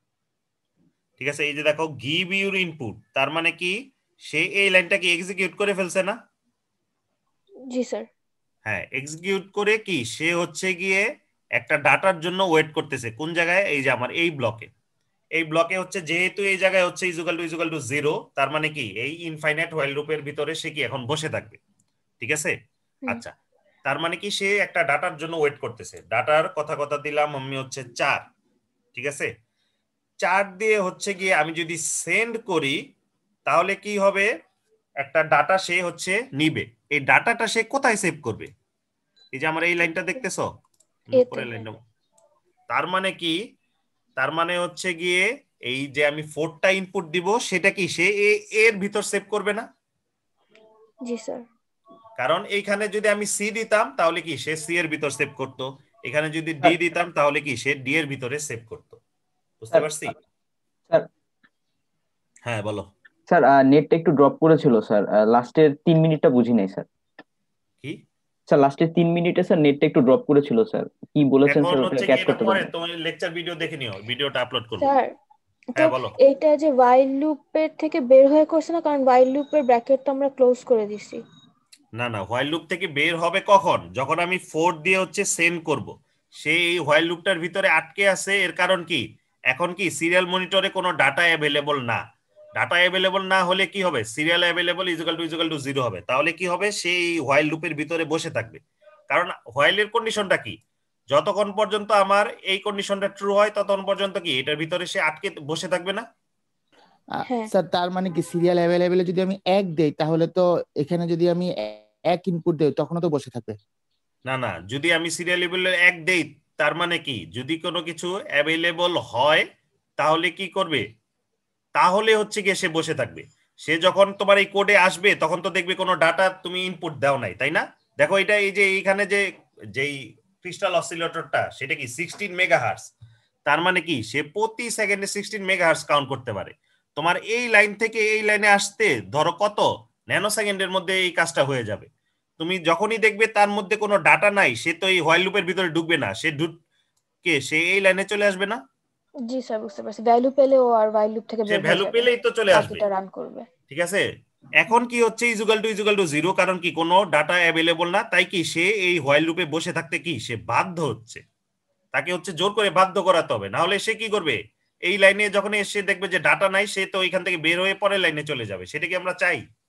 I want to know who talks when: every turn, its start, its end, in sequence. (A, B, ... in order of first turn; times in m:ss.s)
0:01.2-0:03.7 A
0:04.3-0:06.2 A
0:07.7-0:08.1 B
0:08.6-0:11.0 A
0:11.6-0:14.7 A
0:15.4-0:21.6 A
0:22.2-0:22.5 A
0:23.8-0:28.2 A
0:28.9-0:29.3 A
0:30.2-0:32.8 A
0:33.5-0:34.3 A
0:35.0-0:38.5 A
0:39.3-0:40.5 A
0:41.1-0:41.8 A
0:41.1-0:41.7 B
0:42.7-0:43.3 A
0:44.2-0:49.6 A
0:51.0-0:51.4 B
0:52.2-0:59.0 A
0:59.6-1:00.1 A
0:59.7-1:00.1 C
1:02.4-1:02.9 A
1:03.3-1:06.9 C
1:08.5-1:12.7 C
1:11.5-1:14.9 A
1:14.8-1:15.1 B
1:15.8-1:16.1 A
1:15.8-1:21.2 B
1:22.0-1:32.0 A
1:32.6-1:40.6 A
1:41.1-1:46.0 A
1:47.2-1:53.6 D
1:54.3-1:59.4 A
2:00.0-2:00.8 A
2:01.8-2:09.2 A
2:09.7-2:12.9 A
2:13.5-2:21.9 A
2:22.4-2:26.6 A
2:27.2-2:28.6 A
2:29.3-2:33.5 B
2:31.5-2:32.8 A
2:33.7-2:34.0 A
2:34.6-2:41.2 A
2:41.9-2:44.4 A
2:44.9-2:49.4 A